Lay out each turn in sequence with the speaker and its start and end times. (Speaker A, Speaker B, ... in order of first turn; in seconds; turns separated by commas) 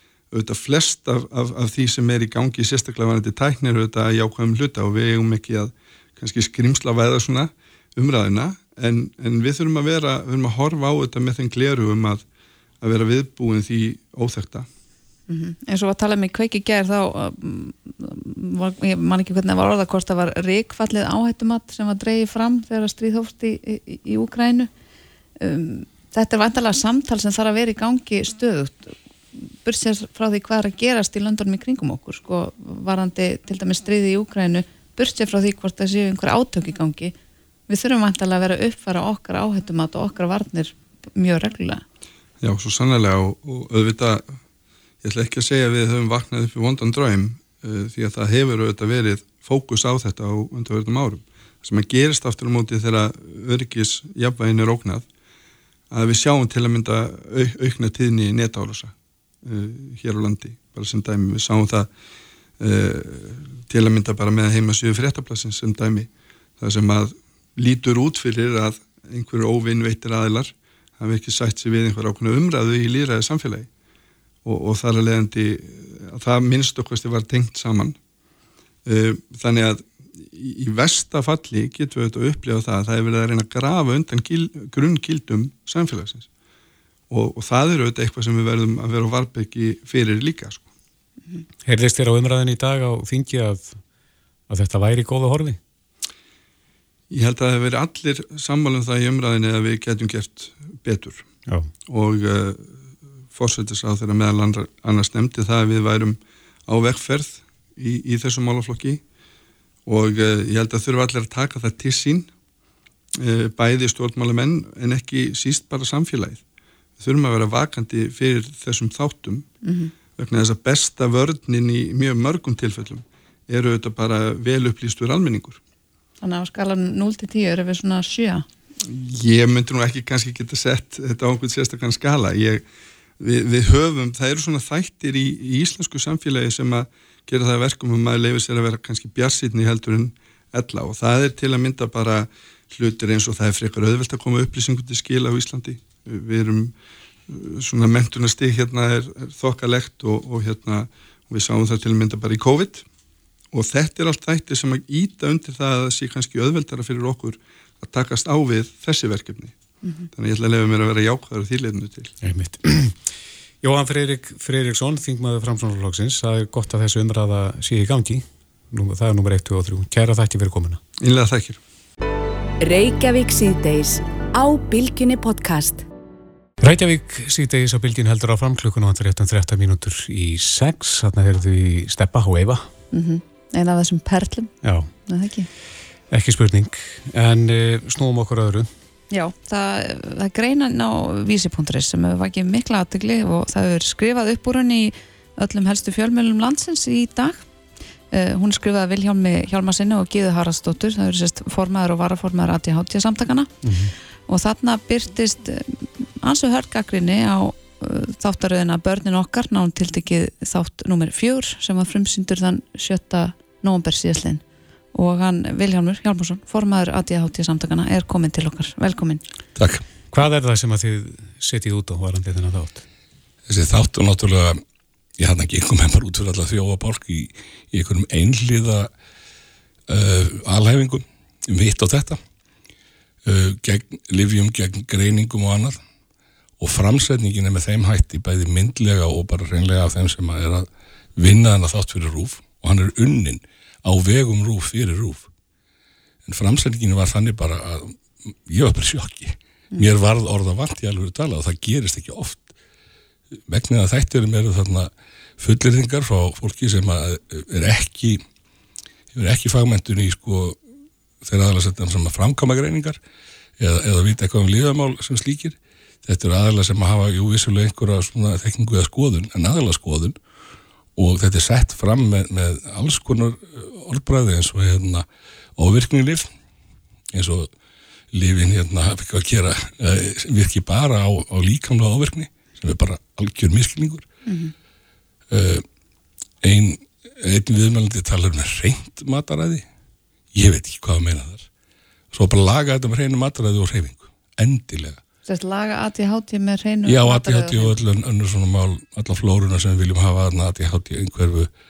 Speaker A: 0.3-12.2, Speaker A: 12.8-14.7, Speaker B: 15.3-24.7, Speaker B: 25.4-37.1, Speaker B: 37.7-41.8, Speaker A: 42.4-44.4, Speaker A: 45.0-55.0, Speaker A: 55.9-61.9, Speaker A: 62.6-73.7, Speaker A: 74.4-78.0, Speaker A: 78.8-86.3, Speaker A: 87.1-90.7, Speaker C: 91.6-93.8, Speaker C: 94.5-95.6, Speaker A: 97.1-101.3, Speaker C: 101.5-101.7, Speaker A: 101.9-102.8, Speaker A: 103.3-109.0, Speaker A: 109.8-112.3, Speaker A: 113.2-116.4, Speaker A: 117.0-119.5, Speaker B: 119.6-119.9, Speaker A: 120.2-125.6, Speaker B: 126.2-128.4, Speaker A: 128.8-132.7, Speaker A: 133.2-146.7, Speaker A: 147.3-152.8, Speaker A: 153.5-159.6, Speaker B: 159.8-160.1, Speaker A: 160.1-162.1, Speaker C: 162.2-163.0, Speaker C: 163.6-170.8, Speaker A: 171.0-171.6, Speaker D: 172.6-175.8, Speaker C: 176.6-182.6, Speaker B: 182.9-185.5, Speaker C: 184.6-184.9, Speaker C: 186.1-188.7, Speaker B: 189.1-197.5, Speaker B: 198.1-203.7, Speaker C: 203.6-203.9, Speaker B: 204.3-219.2, Speaker E: 219.6-219.8, Speaker C: 220.1-222.8, Speaker E: 223.5-224.6, Speaker E: 225.2-228.9, Speaker E: 229.9-232.2, Speaker E: 233.2-235.8, Speaker E: 236.6-245.3, Speaker E: 246.2-252.5, Speaker E: 253.5-258.2, Speaker E: 259.1-260.6, Speaker E: 261.2-263.0, Speaker E: 263.6-270.1, Speaker E: 271.0-275.1, Speaker E: 275.6-276.3, Speaker E: 277.1-277.5, Speaker E: 278.1-284.0, Speaker B: 284.2-284.5, Speaker E: 285.3-285.6, Speaker E: 286.4-289.6, Speaker E: 290.3-291.5, Speaker E: 292.1-295.0, Speaker B: 295.3-297.7, Speaker E: 296.8-301.5